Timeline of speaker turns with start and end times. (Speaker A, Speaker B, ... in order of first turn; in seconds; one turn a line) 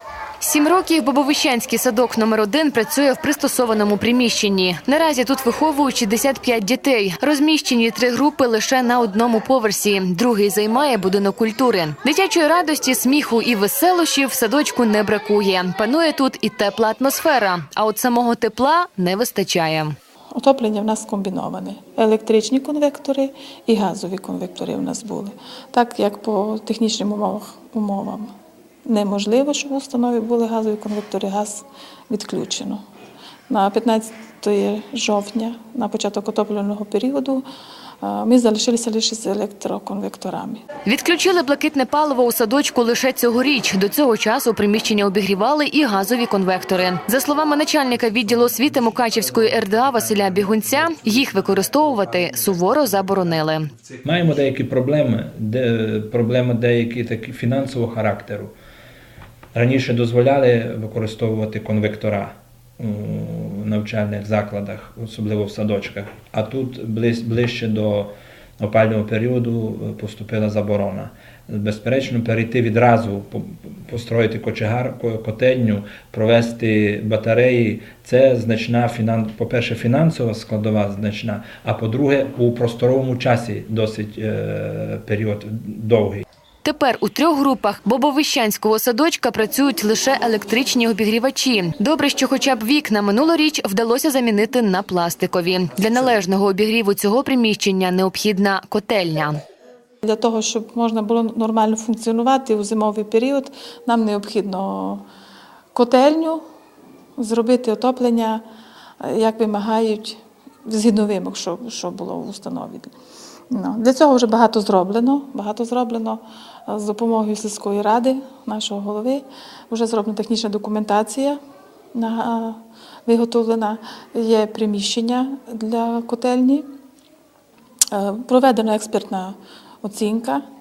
Speaker A: 0.4-20.0
Speaker B: 20.4-28.3
Speaker B: 28.9-32.8
Speaker B: 33.5-37.5
Speaker B: 38.0-40.6
Speaker A: 40.9-53.7
Speaker C: 54.0-58.5
Speaker C: 59.5-86.2
Speaker A: 86.7-99.4
Speaker B: 100.0-105.0
Speaker B: 105.7-106.4
Speaker B: 107.2-108.4
Speaker B: 109.0-112.9
Speaker B: 113.5-121.4
Speaker B: 121.9-126.7
Speaker B: 127.9-130.4